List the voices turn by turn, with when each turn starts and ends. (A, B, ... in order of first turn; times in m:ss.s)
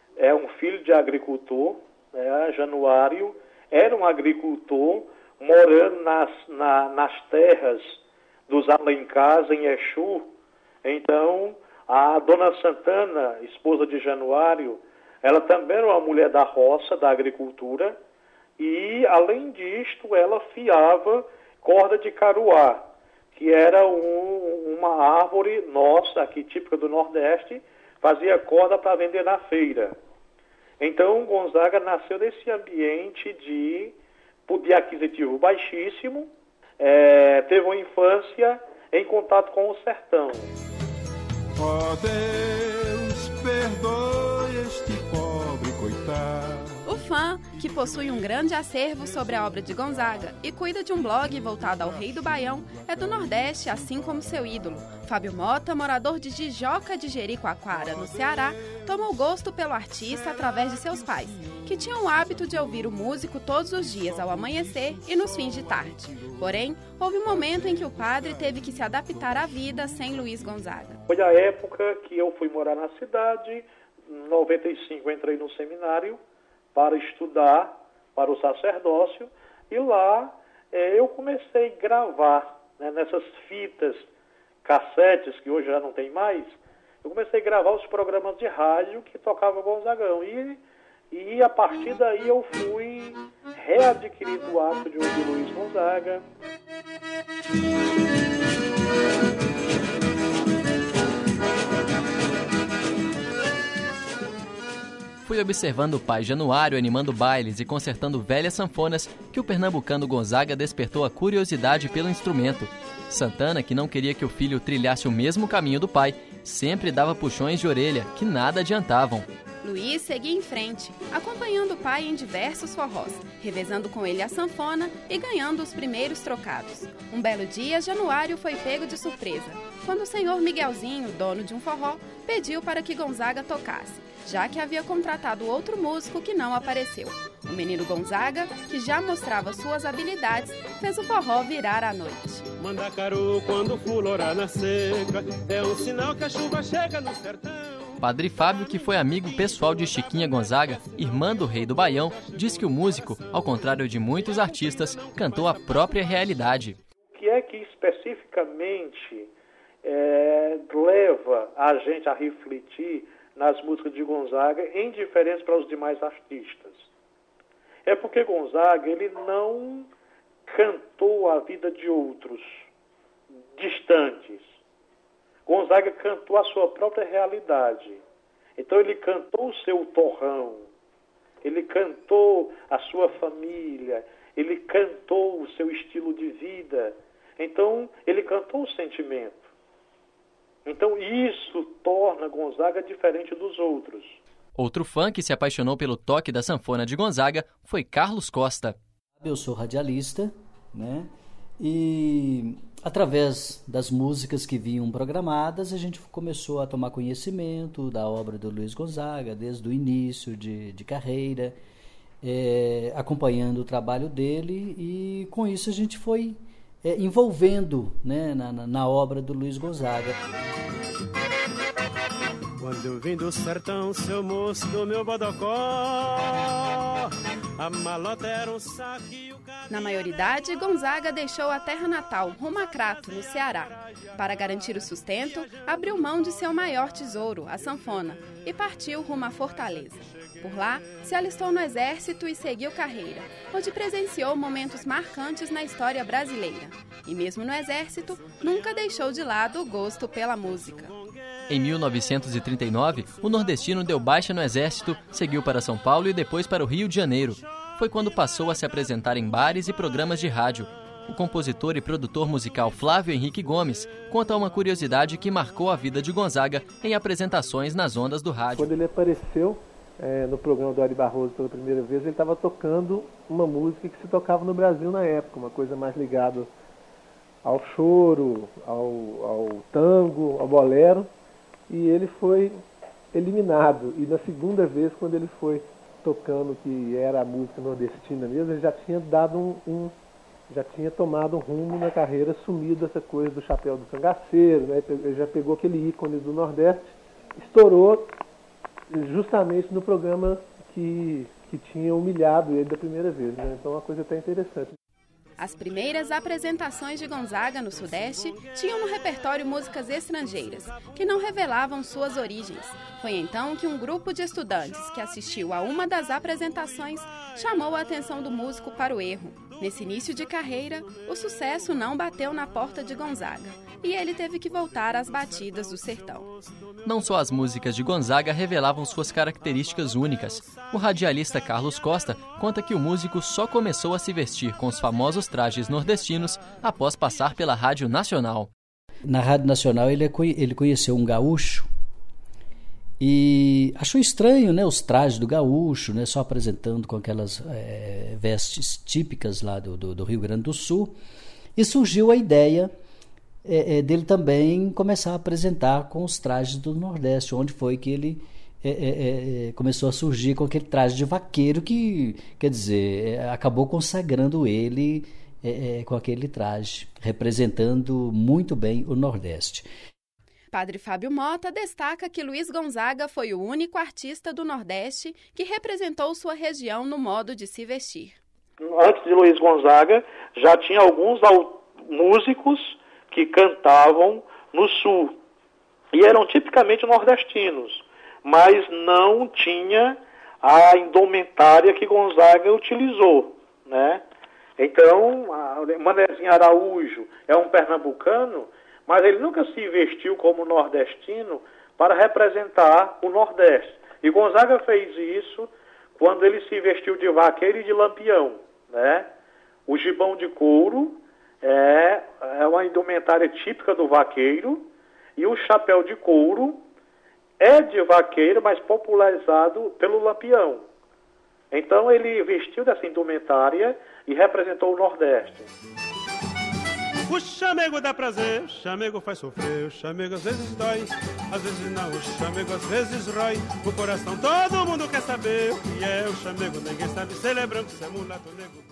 0:00.2-0:08.0 A
0:08.5-0:10.3 A
0:10.8-0:18.0 A
0:18.6-0:30.0 A
0:30.8-0:34.0 A
0:34.5-0:40.5 A
0:41.6-0:46.7 B
0:46.8-1:11.0 C
1:11.1-1:16.2 A
1:16.8-1:24.1 A
1:24.6-1:30.6 A
1:31.1-1:36.2 A
1:45.2-1:59.3 D
1:59.6-2:22.4 C
2:22.6-2:28.0 E
2:28.0-2:36.8 D
2:34.6-2:35.6 E
2:37.1-2:39.3 A
2:39.8-2:46.8 A
2:47.9-2:49.9 A
2:50.5-2:52.6 A
2:53.6-2:54.5 A
2:55.5-2:58.0 A
2:58.6-3:00.6 A
3:01.4-3:09.4 A
3:10.6-3:14.2 A
3:14.6-3:18.8 D
3:19.2-3:21.1 F
3:21.6-3:31.6 F
3:32.2-3:40.2 F
3:42.6-3:49.7 E
3:49.7-4:10.9 C
4:11.5-4:28.7 D
4:28.5-4:36.5 G
4:37.4-4:41.1 G
4:41.7-4:42.6 G
4:43.1-4:50.0 G
4:50.5-4:58.1 G
4:58.9-5:04.8 G
5:05.4-5:26.3 C
5:26.8-5:38.5 D
5:39.1-5:41.7 F
5:43.0-5:51.0 F
5:51.6-5:52.7 F
5:53.4-6:09.7 F
6:10.5-6:18.2 C
6:18.6-6:25.1 A
6:25.9-6:34.0 A
6:34.6-6:49.1 A
6:49.7-6:56.6 A
6:57.4-7:00.6 A
7:01.5-7:05.5 A
7:07.1-7:18.6 E